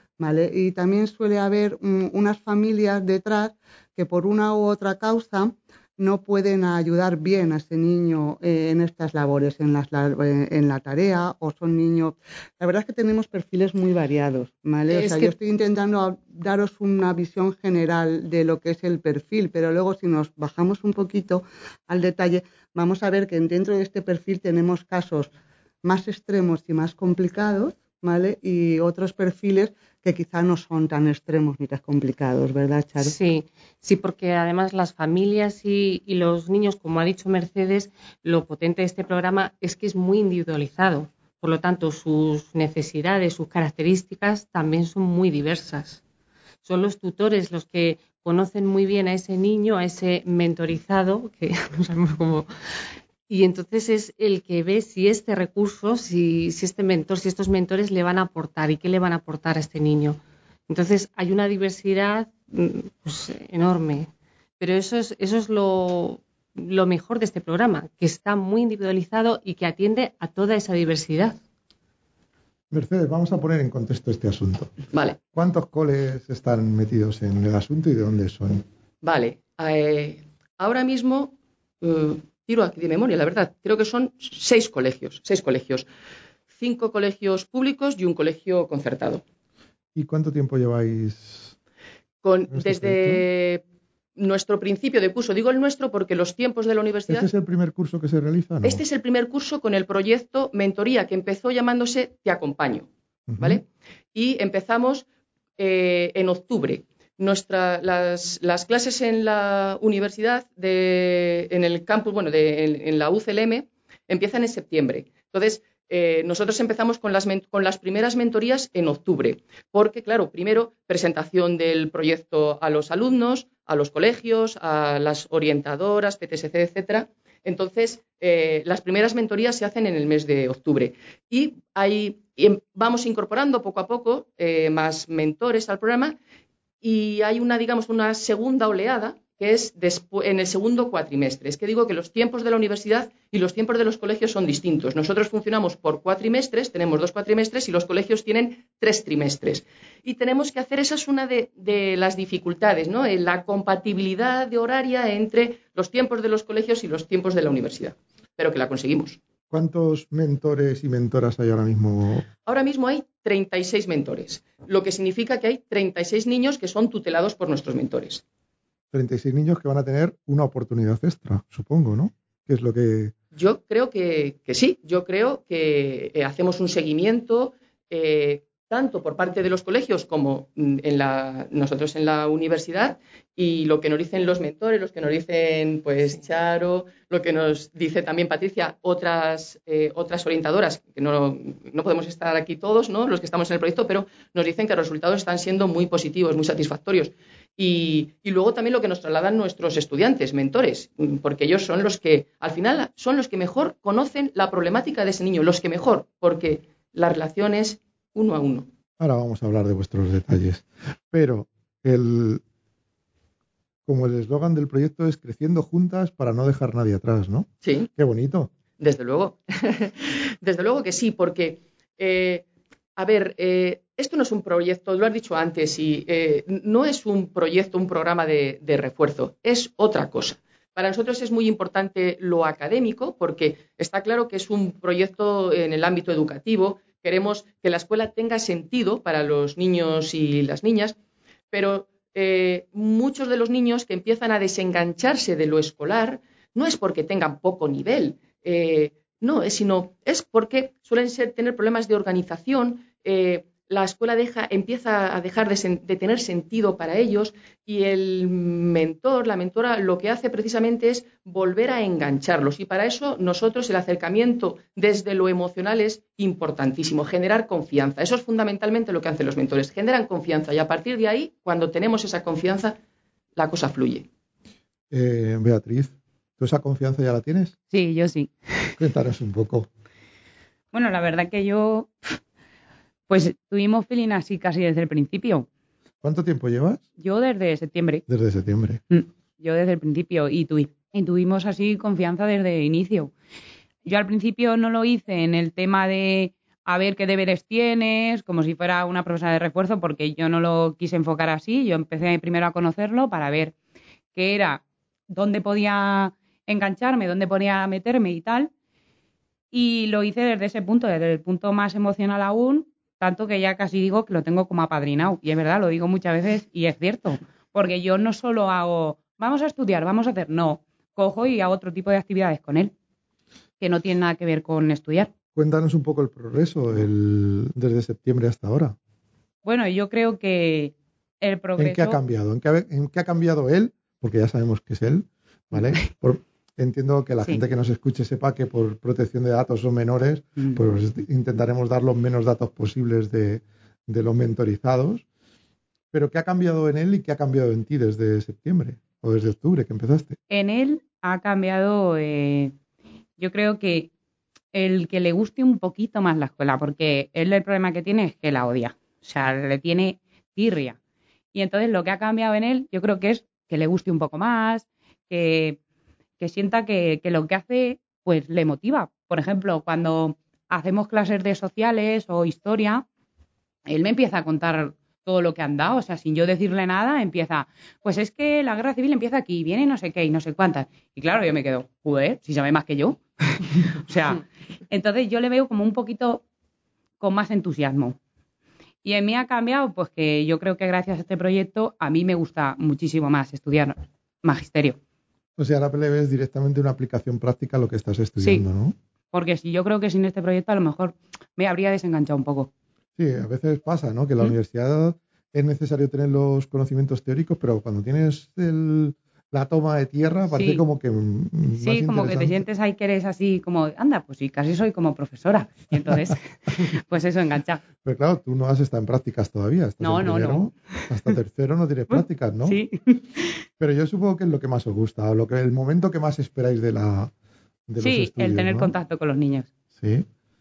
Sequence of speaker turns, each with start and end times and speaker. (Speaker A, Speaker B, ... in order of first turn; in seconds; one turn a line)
Speaker A: 0.2-25.3
Speaker B: 14.9-15.2
Speaker A: 25.8-33.1
Speaker B: 33.0-46.0
Speaker B: 46.6-52.5
Speaker B: 53.3-64.1
Speaker B: 64.6-71.4
Speaker C: 72.7-74.7
Speaker D: 74.9-75.2
Speaker C: 75.3-78.7
Speaker D: 79.0-85.9
Speaker D: 86.5-89.2
Speaker C: 90.0-91.5
Speaker D: 92.2-93.6
Speaker C: 92.5-93.2
Speaker D: 94.2-97.3
Speaker C: 97.1-98.8
Speaker D: 98.6-102.9
Speaker C: 103.3-103.6
Speaker D: 103.4-105.1
Speaker D: 105.6-136.2
Speaker D: 136.8-159.2
Speaker C: 159.5-162.3
Speaker D: 162.5-168.2
Speaker C: 168.9-173.1
Speaker D: 173.3-208.7
Speaker C: 209.0-212.4
Speaker C: 213.9-218.5
Speaker D: 217.6-217.9
Speaker D: 218.8-222.4
Speaker D: 223.0-240.9
Speaker D: 241.5-272.8
Speaker D: 273.4-274.1
Speaker C: 274.9-277.6
Speaker E: 277.7-278.7
Speaker C: 278.8-279.7
Speaker E: 280.7-281.9
Speaker E: 283.1-285.5
Speaker C: 286.0-286.8
Speaker E: 287.0-288.0
Speaker C: 288.1-288.8
Speaker E: 288.9-293.1
Speaker E: 293.9-303.6
Speaker E: 304.1-308.5
Speaker E: 309.5-322.7
Speaker E: 323.6-325.1
Speaker C: 325.4-328.8
Speaker E: 329.4-332.0
Speaker C: 331.6-345.0
Speaker C: 345.9-350.2
Speaker E: 350.3-352.5
Speaker E: 353.2-353.9
Speaker E: 354.5-360.8
Speaker E: 361.3-365.6
Speaker E: 366.2-372.9
Speaker E: 373.7-386.2
Speaker E: 387.0-388.0
Speaker E: 388.8-394.8
Speaker C: 395.4-398.8
Speaker E: 399.1-402.5
Speaker C: 403.0-412.4
Speaker E: 410.3-410.6
Speaker E: 411.6-417.6
Speaker C: 417.8-422.6
Speaker E: 419.8-420.5
Speaker E: 421.9-423.4
Speaker C: 423.6-427.1
Speaker C: 427.7-428.7
Speaker E: 427.8-429.5
Speaker C: 429.8-430.1